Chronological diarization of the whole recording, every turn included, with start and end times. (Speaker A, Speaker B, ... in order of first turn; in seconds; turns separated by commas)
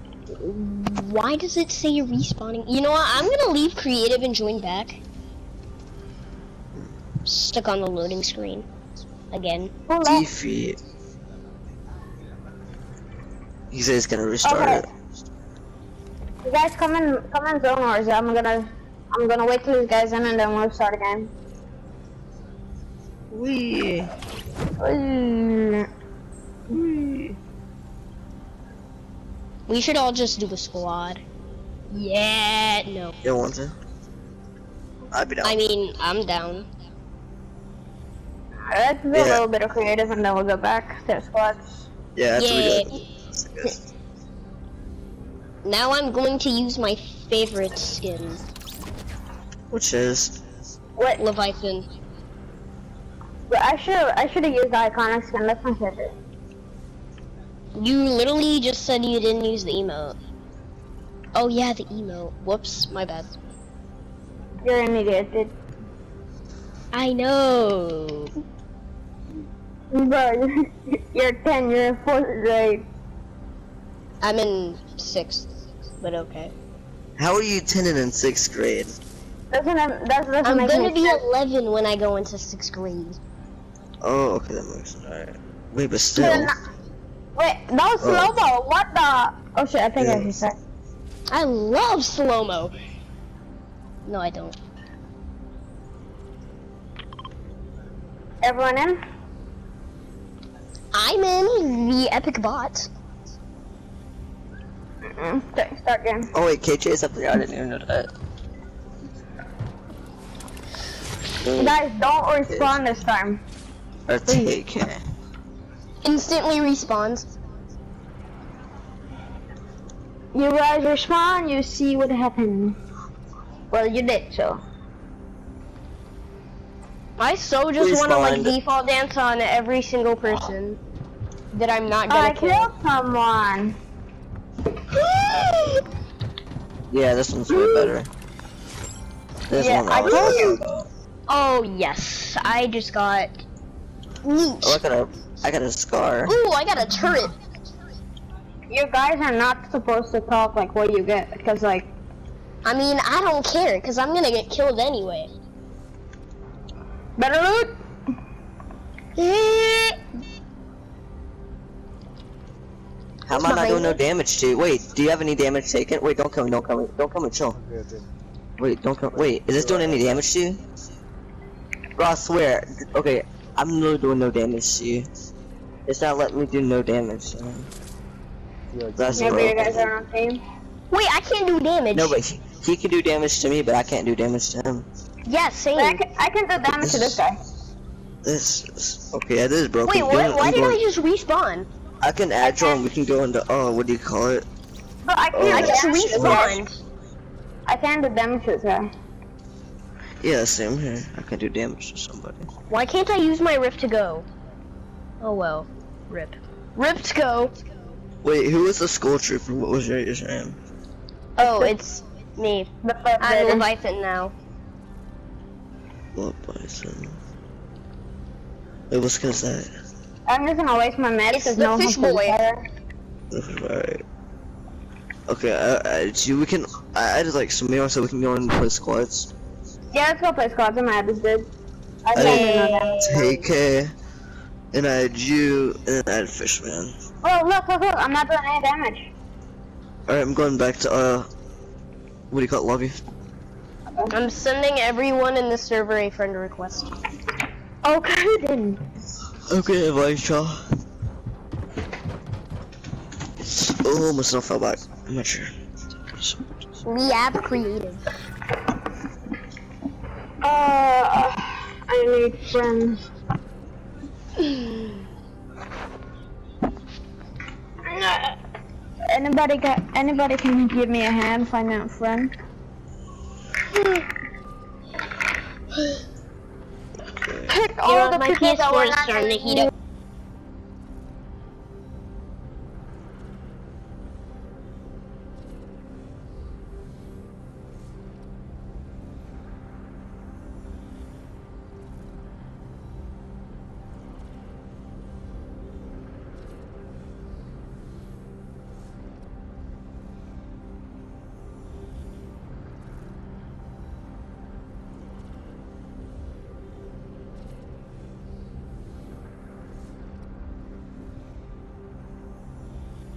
Speaker A: 0.3-5.0, Speaker A: 7.2-8.7, Speaker A: 9.3-9.7, Speaker B: 9.9-10.3, Speaker C: 10.0-10.8, Speaker C: 13.7-14.8, Speaker B: 14.4-14.8, Speaker B: 16.4-21.3, Speaker C: 23.3-24.1, Speaker B: 24.8-25.9, Speaker B: 26.7-27.3, Speaker A: 29.7-31.2, Speaker A: 31.9-33.2, Speaker C: 33.2-33.8, Speaker C: 35.1-35.6, Speaker A: 35.4-36.7, Speaker B: 38.7-41.9, Speaker C: 39.1-39.4, Speaker C: 42.2-43.8, Speaker A: 42.3-42.8, Speaker A: 45.6-48.4, Speaker C: 49.7-50.4, Speaker A: 51.2-51.8, Speaker B: 53.5-56.1, Speaker A: 57.8-60.2, Speaker A: 61.3-63.4, Speaker B: 64.6-65.5, Speaker A: 66.9-68.3, Speaker B: 69.9-72.9, Speaker A: 74.2-75.5, Speaker A: 76.0-76.5, Speaker C: 77.2-78.9, Speaker B: 79.5-81.2, Speaker A: 80.4-83.2, Speaker C: 84.0-86.5, Speaker B: 86.1-86.5, Speaker B: 87.3-90.5, Speaker C: 88.0-88.4, Speaker C: 90.0-90.3, Speaker A: 91.3-92.7, Speaker A: 94.1-94.6, Speaker B: 98.4-99.0, Speaker A: 100.9-102.9, Speaker B: 105.1-106.3, Speaker C: 106.3-108.1, Speaker C: 111.4-111.8, Speaker B: 111.6-113.4, Speaker C: 112.5-112.8, Speaker C: 114.1-115.0, Speaker B: 114.3-114.5, Speaker A: 116.0-117.2, Speaker B: 120.3-122.8, Speaker B: 123.7-124.6, Speaker A: 127.2-130.8, Speaker C: 127.8-128.6, Speaker A: 131.5-132.7, Speaker B: 132.1-133.8, Speaker A: 134.9-135.8, Speaker C: 136.9-138.1, Speaker C: 139.5-140.9, Speaker B: 139.5-140.6, Speaker A: 140.1-140.4, Speaker A: 141.3-143.4, Speaker A: 144.2-144.8, Speaker C: 144.6-146.3, Speaker A: 146.2-147.3, Speaker B: 148.7-151.9, Speaker A: 152.6-155.3, Speaker B: 157.2-157.7, Speaker A: 159.2-160.0, Speaker C: 163.3-167.6, Speaker A: 163.3-164.0, Speaker C: 168.6-170.6, Speaker C: 171.9-175.1, Speaker C: 175.9-177.7, Speaker C: 178.9-179.9, Speaker B: 179.1-180.4, Speaker A: 180.9-182.2, Speaker C: 181.9-184.9, Speaker A: 185.2-186.0, Speaker B: 185.8-187.4, Speaker C: 186.6-187.2, Speaker C: 188.2-190.8, Speaker A: 189.9-191.7, Speaker C: 192.0-194.4, Speaker B: 195.0-196.6, Speaker C: 195.3-196.4, Speaker A: 195.4-196.8, Speaker B: 197.7-198.9, Speaker C: 200.2-202.5, Speaker A: 202.7-204.3, Speaker A: 205.2-207.5, Speaker C: 208.2-210.6, Speaker A: 211.4-214.3, Speaker B: 211.4-211.8, Speaker B: 212.8-213.7, Speaker C: 216.2-217.2, Speaker C: 218.9-219.7, Speaker B: 220.3-222.6, Speaker A: 221.3-222.4, Speaker C: 223.3-224.0, Speaker C: 225.3-229.3, Speaker B: 229.9-231.5, Speaker B: 232.1-233.4, Speaker A: 232.1-233.2, Speaker C: 232.1-233.9, Speaker C: 234.7-236.9, Speaker B: 237.2-239.1, Speaker C: 240.1-241.3, Speaker C: 242.3-243.0, Speaker A: 244.1-246.9, Speaker B: 247.8-248.8, Speaker C: 249.5-250.6, Speaker C: 253.4-255.5, Speaker A: 256.8-258.0, Speaker B: 260.4-263.0, Speaker A: 264.4-264.7, Speaker A: 267.9-268.3, Speaker B: 269.1-272.3, Speaker B: 277.5-279.7, Speaker A: 277.8-279.7